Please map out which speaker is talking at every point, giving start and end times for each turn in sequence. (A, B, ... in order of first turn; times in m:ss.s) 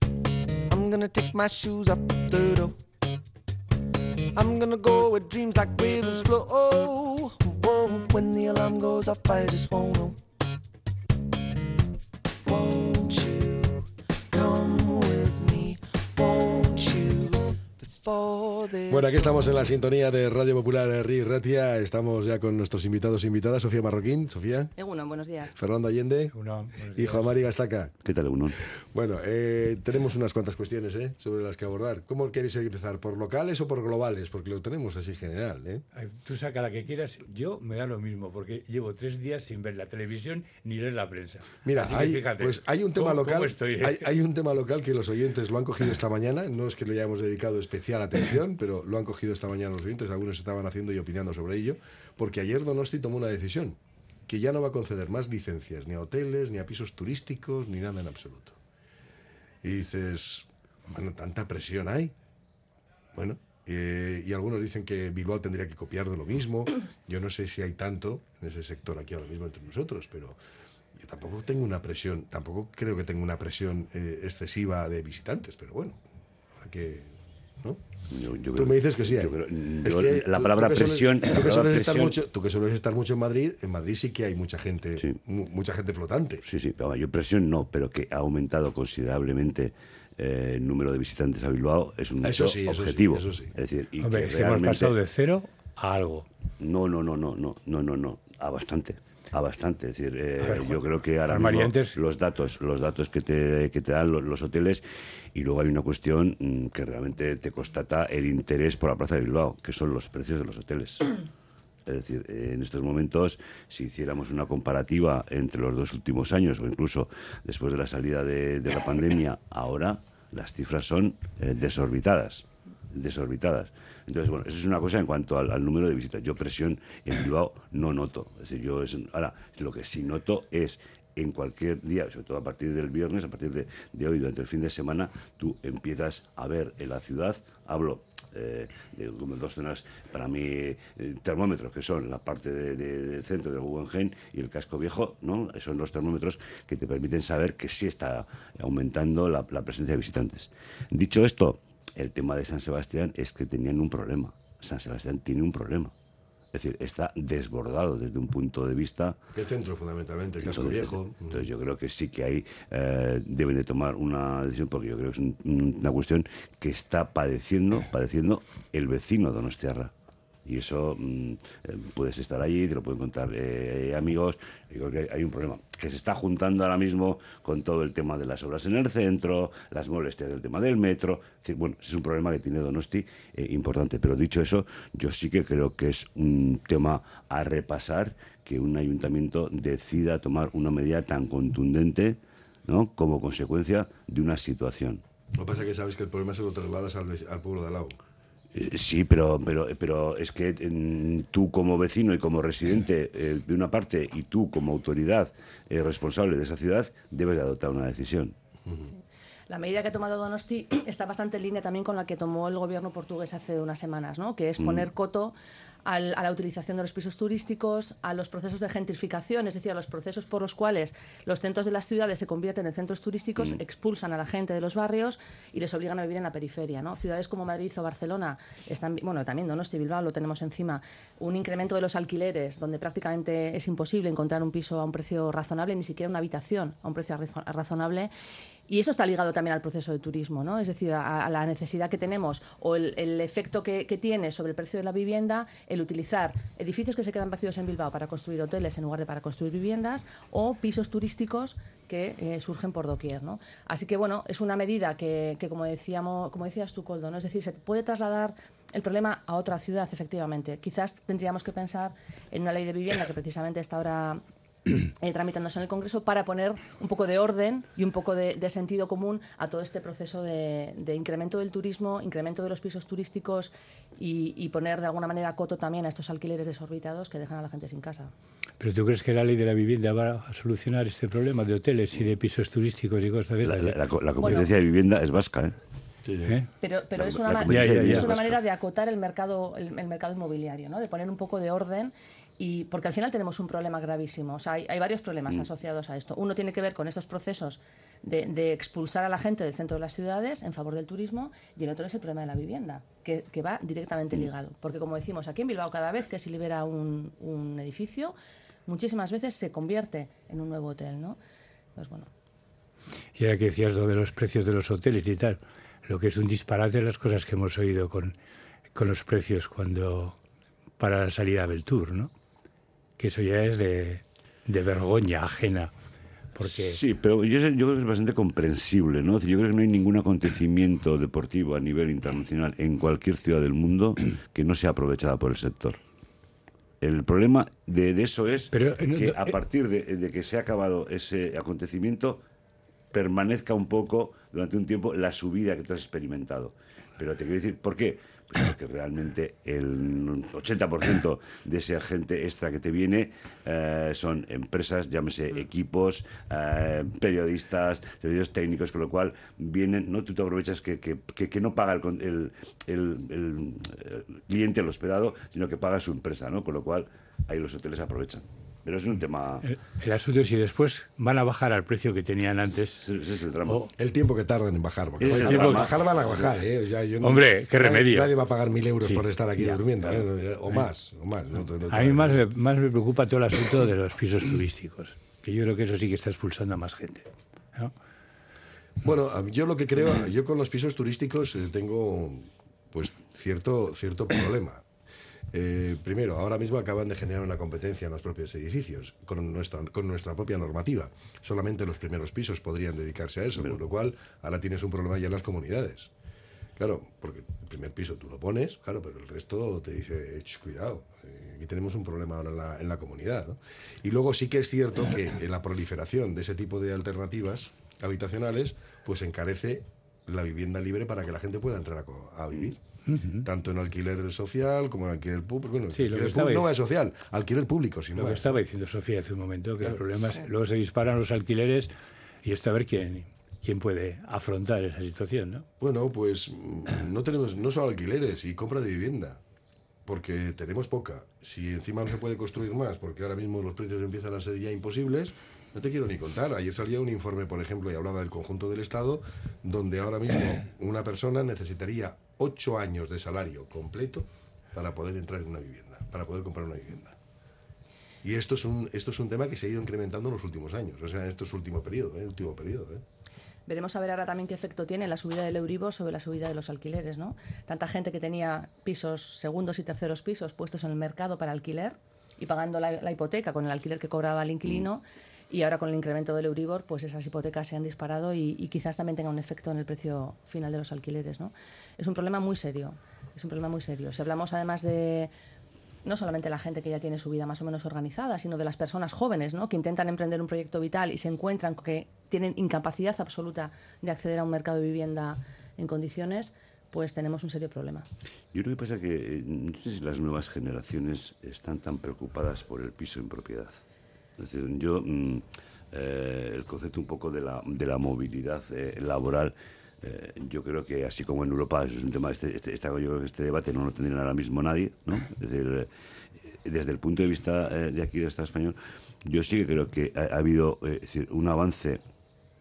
0:00.7-0:02.8 A
0:04.3-0:10.2 A
0:12.4-0:19.4 A
0:18.9-0:24.7 B
0:24.8-0:25.5 C
0:25.5-0:26.3 B
0:26.3-0:27.4 D
0:26.9-0:27.9 B
0:28.0-0:28.6 E
0:28.9-0:35.8 B
0:35.9-0:44.1 D
0:41.6-0:58.6 B
0:59.6-1:02.1 B
1:03.1-1:10.4 B
1:10.9-1:16.0 B
1:16.6-1:17.8 B
1:18.1-1:22.2 E
1:18.5-1:26.4 B
1:26.4-1:34.9 E
1:32.2-1:33.5 B
1:34.0-1:36.3 D
1:36.6-1:44.8 E
1:40.4-1:42.0 D
1:45.3-1:51.1 E
1:51.9-2:35.9 E
2:36.5-2:39.2 E
2:39.4-2:41.4 B
2:40.4-2:49.9 E
2:50.4-3:15.0 E
3:15.4-3:18.0 B
3:18.5-3:28.4 E
3:29.5-3:58.1 C
3:34.6-3:34.9 E
3:58.7-4:24.2 C
4:25.0-4:38.1 C
4:38.6-4:43.8 D
4:43.4-4:45.6 E
4:44.2-4:44.5 C
4:46.0-4:46.4 B
4:46.6-5:08.2 C
4:47.0-4:48.4 E
4:47.5-4:48.1 D
5:08.7-5:11.2 C
5:11.8-5:12.1 C
5:13.2-5:18.2 D
5:18.7-5:20.2 D
5:20.8-5:22.1 D
5:23.0-5:25.7 D
5:26.4-5:26.8 D
5:26.4-5:35.8 E
5:36.8-5:42.2 E
5:38.5-5:39.4 D
5:42.9-6:09.5 E
6:09.4-6:12.8 D
6:12.8-6:13.7 E
6:13.8-6:22.2 B
6:15.0-6:16.3 E
6:15.1-6:15.7 D
6:17.0-6:18.1 D
6:18.8-6:19.6 D
6:21.7-6:27.7 D
6:28.8-6:34.6 B
6:35.3-6:45.9 B
6:46.6-7:02.6 B
7:02.9-7:03.2 D
7:03.2-7:08.3 B
7:05.7-7:06.5 D
7:08.0-7:15.5 D
7:15.6-7:19.2 B
7:19.9-7:37.0 B
7:38.0-7:42.8 B
7:43.5-8:05.1 C
8:05.8-8:17.9 C
8:18.3-8:23.6 E
8:24.2-8:35.7 E
8:36.4-8:41.8 E